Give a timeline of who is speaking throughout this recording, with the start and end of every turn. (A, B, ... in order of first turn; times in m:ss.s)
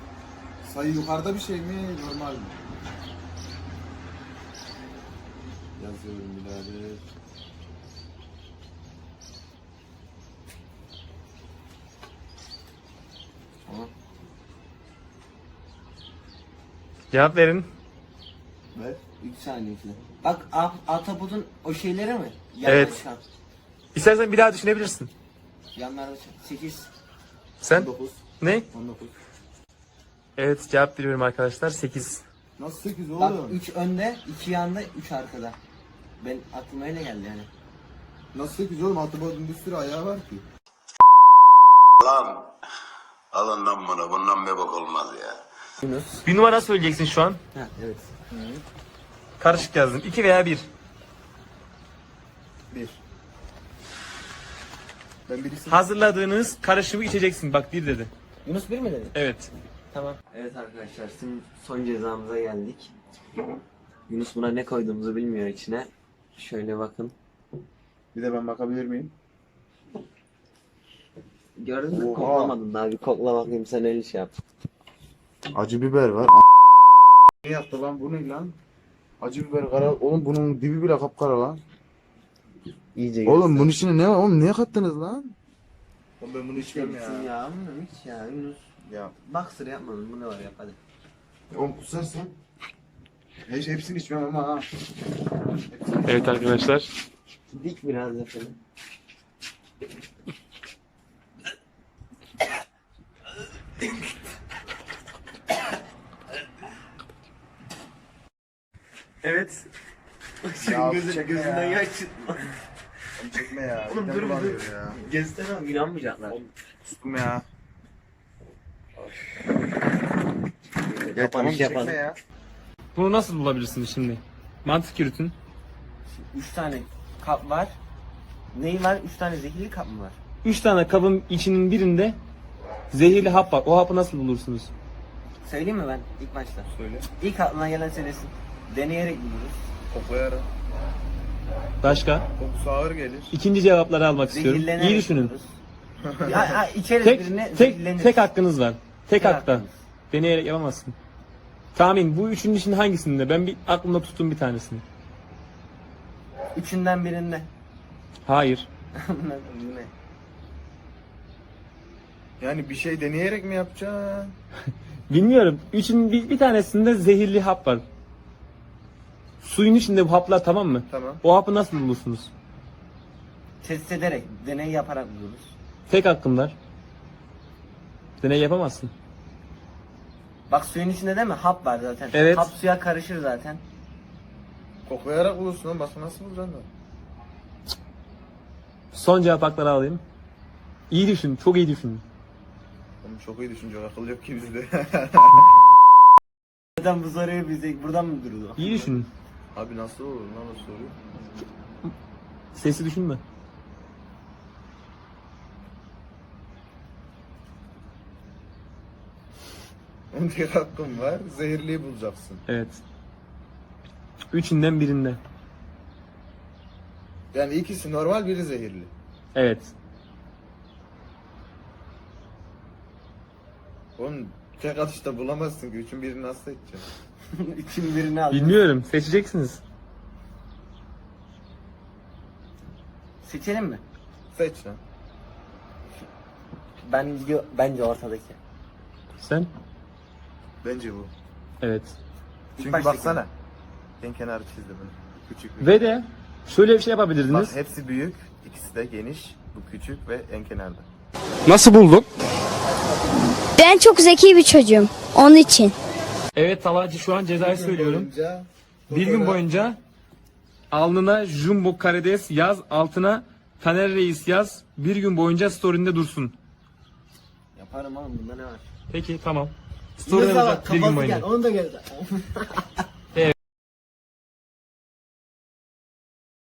0:00.6-0:02.6 A
0:05.8-0:07.0 A
0:13.7-0:13.9 B
0:17.1-0:17.7 C
0:18.7-0:19.0 A
0:19.1-0:23.2 B
0:22.6-0:23.0 C
0:24.0-0:25.1 C
0:25.7-0:26.9 B
0:27.6-0:28.7 C
0:27.7-0:29.1 A
0:30.4-0:32.2 C
0:32.6-0:33.6 A
0:33.2-0:35.6 B
0:36.2-0:37.5 B
0:38.3-0:40.4 A
0:42.0-0:42.5 D
0:43.3-0:45.4 D
0:45.8-0:46.2 B
0:46.2-0:47.4 C
0:47.5-0:48.1 B
0:48.3-0:48.6 A
0:49.4-0:50.7 C
0:52.7-0:53.0 A
0:55.3-0:55.8 A
0:55.7-0:58.1 C
0:58.4-0:59.2 B
0:59.1-1:00.2 C
1:00.2-1:02.9 B
1:04.1-1:07.1 B
1:08.1-1:09.1 A
1:11.6-1:14.3 B
1:11.9-1:12.6 A
1:15.5-1:16.4 A
1:17.4-1:18.6 A
1:19.2-1:21.6 A
1:23.0-1:23.8 B
1:23.2-1:25.4 A
1:26.2-1:27.3 A
1:26.6-1:28.6 B
1:28.8-1:29.1 A
1:29.2-1:30.8 B
1:31.5-1:32.3 A
1:33.5-1:34.7 A
1:35.7-1:36.6 A
1:36.1-1:36.9 C
1:37.5-1:38.6 B
1:49.2-1:49.6 C
1:50.4-1:52.5 B
1:50.6-1:51.8 A
1:53.2-1:55.0 A
1:53.9-1:56.5 B
1:56.3-1:57.4 A
2:00.8-2:02.0 B
2:01.1-2:02.2 A
2:03.0-2:05.4 C
2:06.1-2:07.8 B
2:08.5-2:10.2 B
2:10.4-2:12.2 C
2:12.9-2:14.7 C
2:15.4-2:19.7 B
2:16.7-2:17.1 A
2:19.9-2:20.5 A
2:21.8-2:22.3 C
2:22.4-2:23.3 A
2:23.3-2:25.3 C
2:24.3-2:25.6 B
2:26.0-2:26.7 A
2:26.2-2:28.3 B
2:27.0-2:31.0 C
2:29.2-2:29.7 B
2:31.8-2:34.8 C
2:36.6-2:37.5 B
2:38.3-2:38.7 C
2:39.0-2:39.9 B
2:42.4-2:44.4 A
2:45.1-2:47.8 C
2:49.4-2:52.3 C
2:50.9-2:51.2 A
2:53.6-2:55.5 B
2:55.9-2:56.6 C
2:58.2-2:58.9 C
3:00.5-3:03.6 B
3:02.1-3:02.5 C
3:04.9-3:06.7 A
3:08.9-3:10.0 C
3:10.9-3:12.0 C
3:13.0-3:15.6 A
3:16.8-3:18.9 B
3:18.6-3:19.1 C
3:19.5-3:21.0 A
3:22.6-3:23.2 C
3:30.1-3:32.4 A
3:32.5-3:32.8 C
3:34.3-3:35.2 C
3:37.3-3:38.9 A
3:39.4-3:39.7 C
3:44.0-3:46.8 A
3:47.3-3:48.6 B
3:48.3-3:49.6 C
3:53.2-3:53.8 B
3:54.3-3:54.8 A
3:56.8-3:58.4 B
3:59.2-3:59.5 C
4:00.6-4:01.1 A
4:01.6-4:02.0 C
4:02.6-4:03.2 B
4:02.6-4:03.3 A
4:04.0-4:06.0 A
4:05.6-4:07.6 C
4:07.3-4:10.9 A
4:13.5-4:15.7 E
4:16.3-4:18.1 C
4:17.4-4:19.7 A
4:18.9-4:19.8 C
4:20.7-4:26.4 C
4:27.6-4:28.7 B
4:28.9-4:31.3 C
4:30.0-4:32.9 B